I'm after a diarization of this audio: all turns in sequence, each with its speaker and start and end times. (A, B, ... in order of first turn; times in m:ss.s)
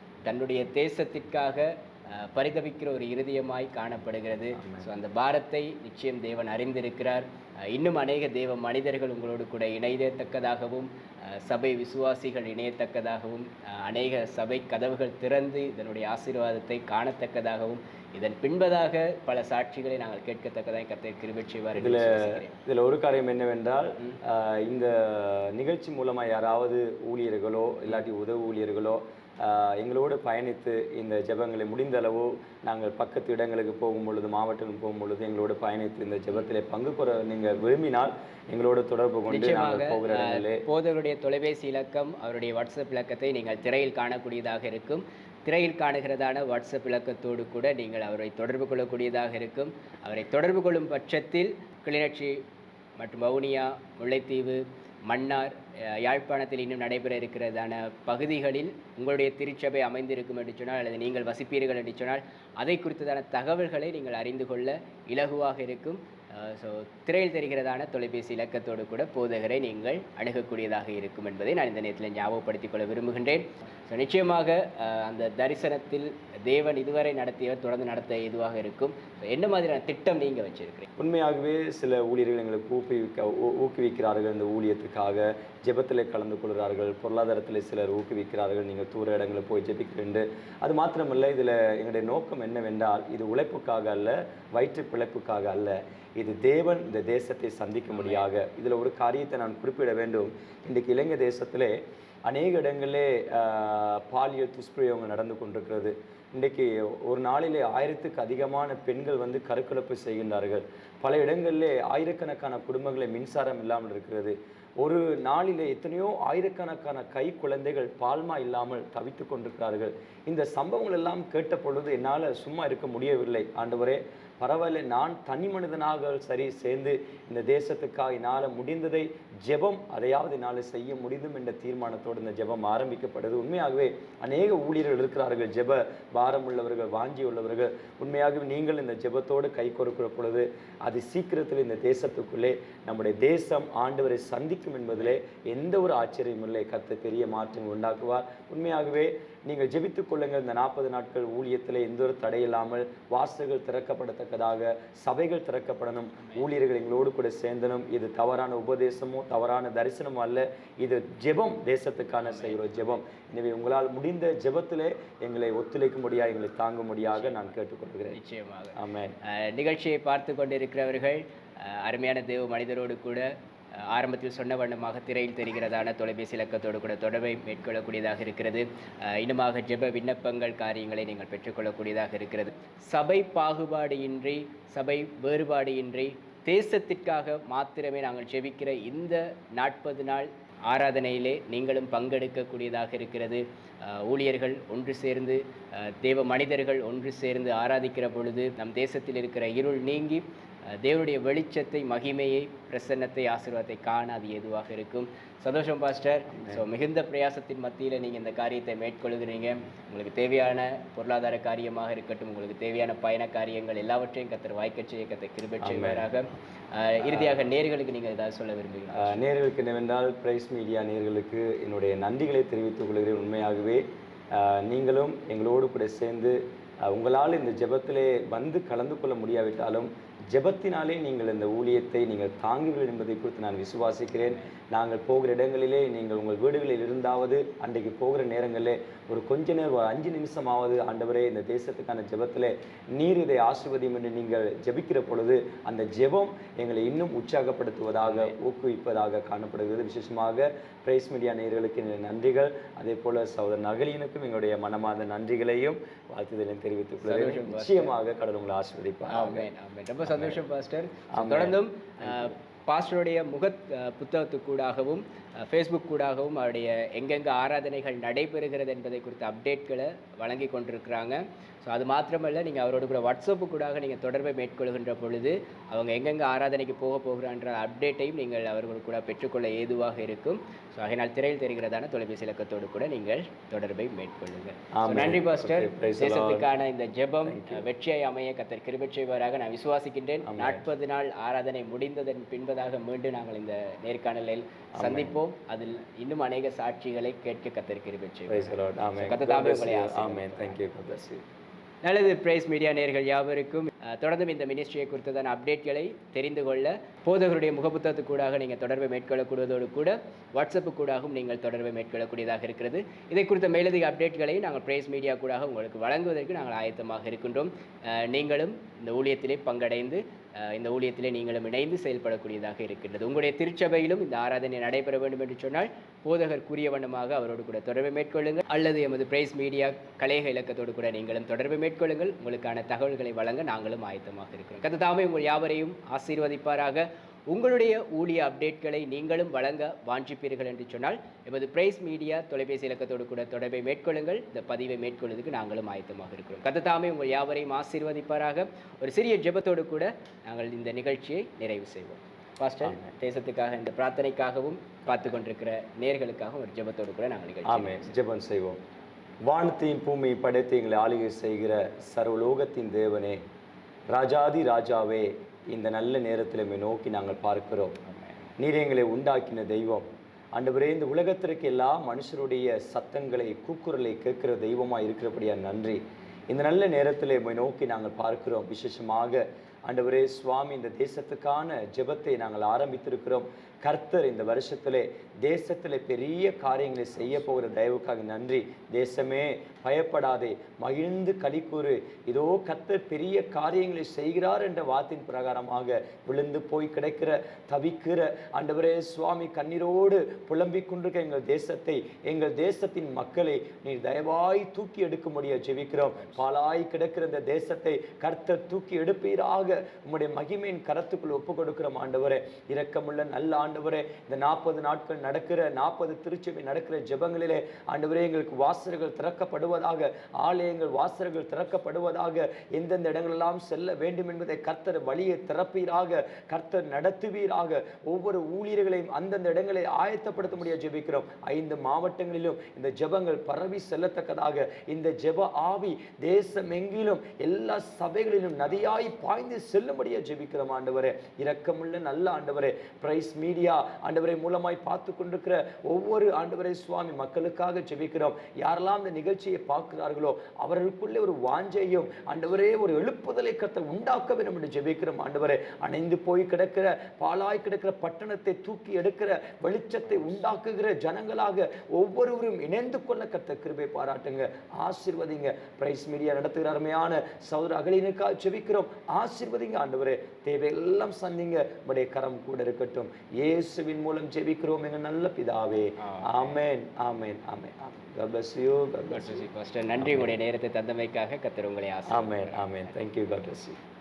0:00.2-0:22.6 A
0:04.5-0:04.9 B
0:21.8-0:40.6 B
0:39.3-0:52.4 A
0:53.0-1:20.9 A
1:21.0-1:41.8 B
1:37.9-1:38.3 A
1:42.3-2:48.2 B
2:36.2-2:36.5 A
2:42.2-2:43.0 A
2:47.1-2:47.6 A
2:48.2-2:48.8 A
2:48.8-2:49.2 B
2:49.3-2:53.3 A
2:53.9-3:39.2 A
3:26.3-3:26.6 B
3:35.6-3:36.0 B
3:37.0-3:37.5 B
3:38.9-4:19.5 B
4:08.0-4:08.4 A
4:17.0-4:17.9 A
4:19.1-5:00.6 A
4:20.1-4:20.4 B
4:21.1-4:22.3 B
4:44.8-4:46.5 B
4:47.2-4:47.7 B
4:50.2-4:50.7 B
4:54.8-4:55.2 B
4:58.3-5:01.2 B
5:01.8-5:57.9 A
5:52.6-5:52.9 B
5:57.5-5:58.6 B
5:59.3-6:03.2 B
6:03.9-6:07.8 B
6:07.9-6:08.2 A
6:08.4-7:59.2 B
7:55.8-7:56.4 A
7:58.9-8:02.7 A
7:59.8-8:00.1 B
8:01.9-8:03.6 B